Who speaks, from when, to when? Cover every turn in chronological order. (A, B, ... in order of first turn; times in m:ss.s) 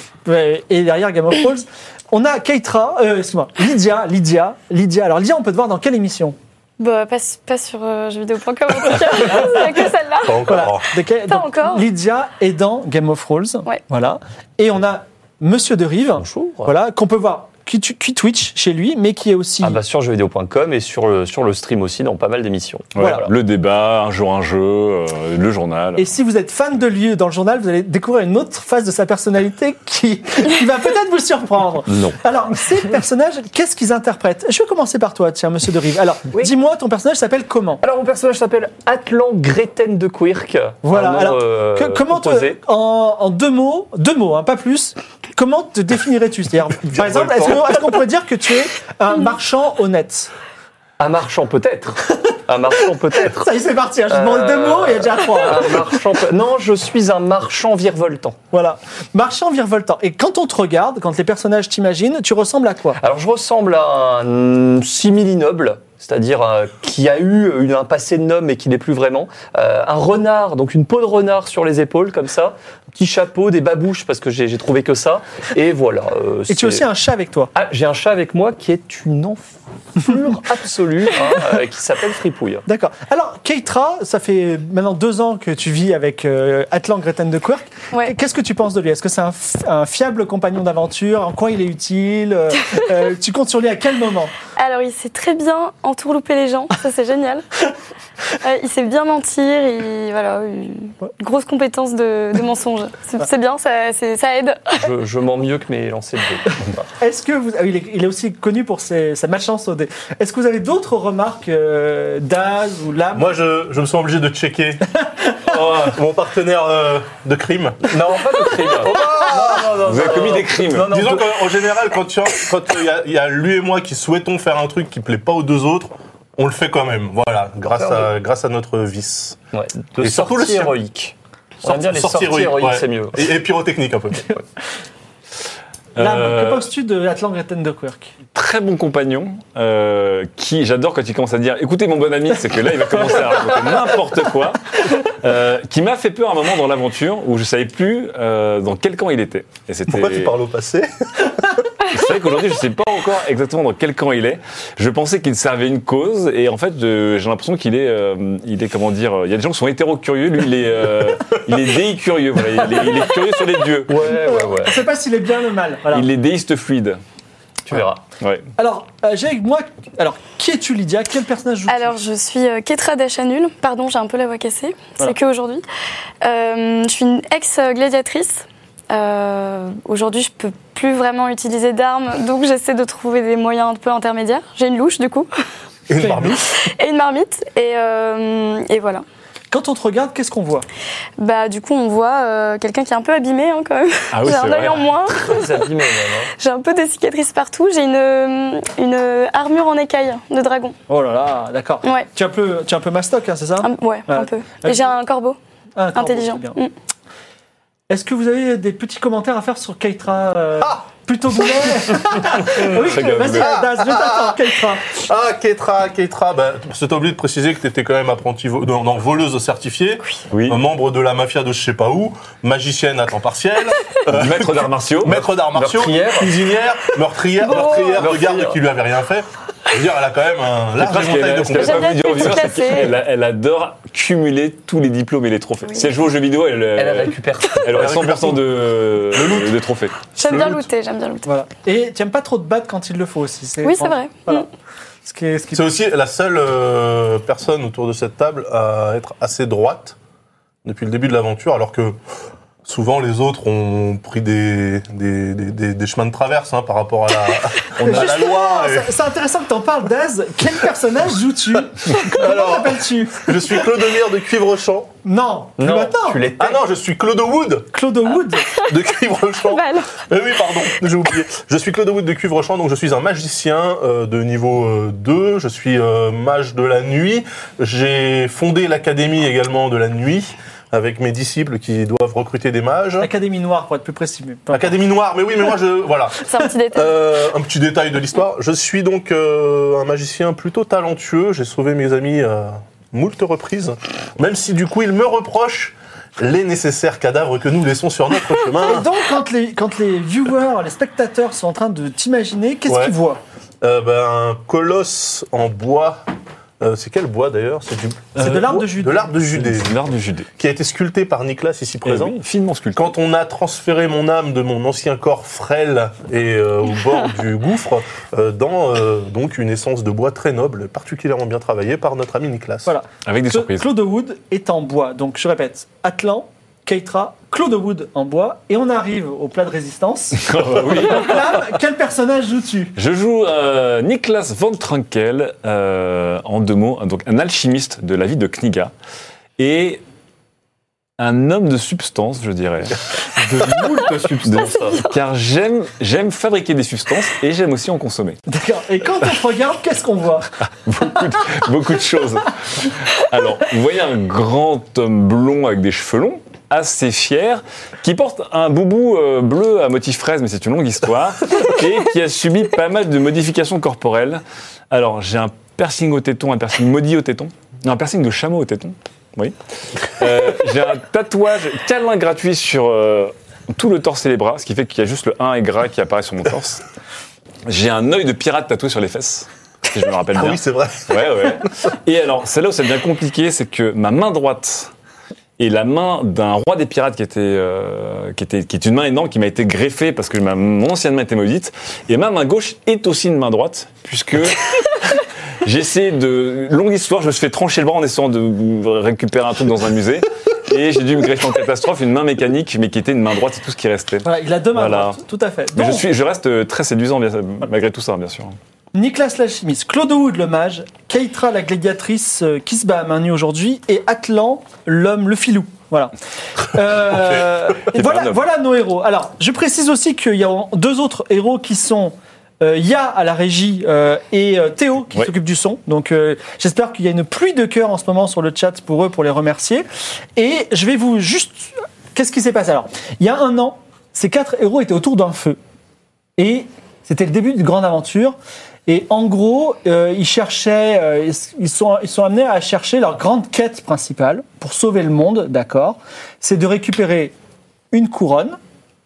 0:00.3-0:06.4 A
0:06.8-0:10.5 B
0:09.3-0:09.6 A
0:10.2-0:10.8 C
0:10.5-0:19.8 A
0:11.3-0:11.9 B
0:16.2-0:16.7 D
0:19.6-0:23.3 D
0:23.0-0:26.1 E
0:23.0-0:23.3 A
0:26.0-0:37.8 A
0:37.8-0:42.6 D
0:40.8-0:50.3 A
0:46.9-0:47.8 C
0:51.0-0:53.5 D
0:53.4-0:55.8 A
0:54.1-0:58.4 D
0:58.5-1:03.0 A
1:03.0-1:16.9 D
1:16.5-1:17.5 A
1:17.5-1:22.6 D
1:22.7-1:34.3 A
1:34.6-1:37.4 B
1:38.4-1:44.8 B
1:44.8-1:46.8 D
1:47.0-1:53.4 A
1:53.2-1:54.9 C
1:55.3-1:55.6 A
1:55.5-1:57.9 C
1:55.6-1:55.8 D
1:57.8-2:01.4 D
1:58.9-1:59.8 C
1:59.8-2:00.9 E
2:00.9-2:09.4 C
2:07.7-2:08.1 D
2:09.5-2:13.3 D
2:10.0-2:10.8 C
2:11.6-2:14.4 C
2:16.0-2:18.1 A
2:16.0-2:16.7 E
2:18.3-2:30.3 E
2:29.9-2:31.3 C
2:31.9-2:44.0 E
2:43.9-2:44.8 D
2:44.2-2:46.1 A
2:45.9-2:47.0 E
2:47.7-2:48.0 D
2:48.2-2:48.5 E
2:48.6-2:52.0 A
2:51.7-2:55.6 B
2:56.2-3:05.3 B
3:05.9-3:06.5 C
3:06.0-3:06.4 A
3:06.6-3:09.0 B
3:09.5-3:10.7 A
3:11.2-3:15.7 B
3:14.1-3:15.2 E
3:15.2-3:16.3 D
3:16.4-3:20.8 B
3:20.9-3:24.9 A
3:23.6-3:25.4 B
3:25.8-3:26.6 A
3:26.0-3:26.7 B
3:27.9-3:34.9 A
3:32.5-3:33.6 E
3:33.6-3:34.4 C
3:34.9-3:52.4 C
3:40.3-3:40.6 E
3:44.1-3:45.2 E
3:45.5-3:46.5 D
3:47.5-3:48.6 D
3:47.6-3:48.0 B
3:50.8-4:00.1 E
3:51.5-3:53.0 B
3:56.7-3:57.9 D
3:57.7-3:58.6 C
3:59.1-3:59.6 C
4:00.2-4:01.3 B
4:00.3-4:00.7 C
4:01.3-4:04.5 A
4:03.6-4:04.5 B
4:05.0-4:05.7 A
4:05.5-4:10.0 C
4:10.6-4:12.0 C
4:12.6-4:18.9 C
4:17.8-4:23.5 A
4:22.1-4:24.9 C
4:25.0-4:26.2 A
4:25.6-4:26.6 D
4:26.4-4:27.7 C
4:27.7-4:28.5 A
4:28.6-4:43.1 C
4:29.5-4:30.0 B
4:43.0-4:44.8 A
4:44.5-4:58.9 C
4:46.2-4:47.0 B
4:58.6-5:03.2 A
5:02.7-5:03.0 C
5:03.6-5:06.1 C
5:06.6-5:12.2 C
5:08.2-5:09.2 A
5:09.2-5:10.3 E
5:11.8-5:12.9 E
5:12.8-5:22.7 C
5:22.7-5:32.7 A
5:23.0-5:23.7 E
5:30.2-5:31.4 E
5:32.8-5:38.7 E
5:39.4-5:39.8 E
5:41.0-5:42.8 E
5:43.2-5:44.9 D
5:44.2-5:48.2 E
5:48.3-5:50.3 A
5:50.6-6:16.6 E
6:17.5-6:24.7 E
6:20.1-6:21.4 C
6:25.4-6:45.0 E
6:44.0-6:45.9 A
6:45.6-6:48.4 E
6:48.7-6:55.9 A
6:56.4-7:15.4 A
6:57.7-6:58.2 E
7:16.2-7:18.2 A
7:18.7-7:27.1 A
7:27.7-7:28.4 A